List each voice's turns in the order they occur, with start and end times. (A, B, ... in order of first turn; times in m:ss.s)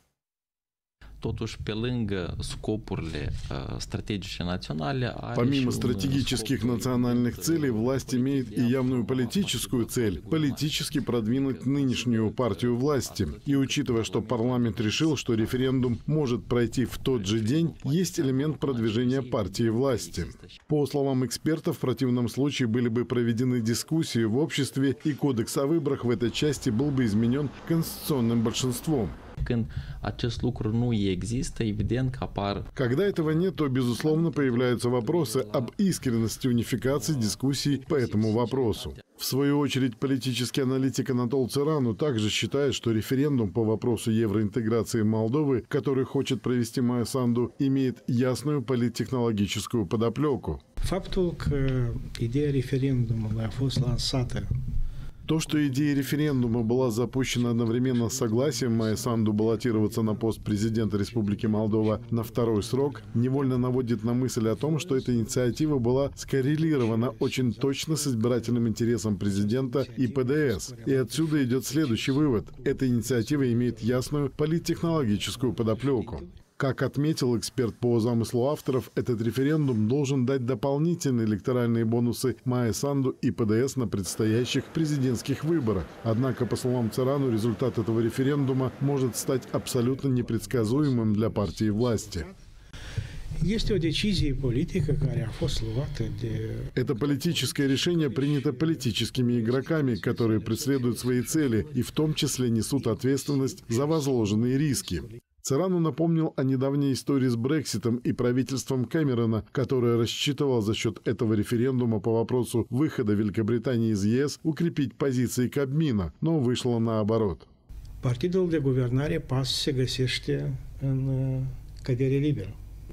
0:01.2-0:15.8 A
0:05.3-0:29.2 B
0:17.0-0:20.6 A
0:29.4-0:35.8 A
0:32.8-0:50.6 B
0:36.8-0:39.0 A
0:50.8-0:54.5 C
0:55.3-1:32.3 B
0:55.5-1:05.7 C
1:06.4-1:14.1 C
1:14.7-1:16.4 C
1:29.9-1:32.4 C
1:33.4-1:41.9 C
1:36.8-1:57.5 B
1:42.8-1:45.2 C
1:58.0-2:02.6 C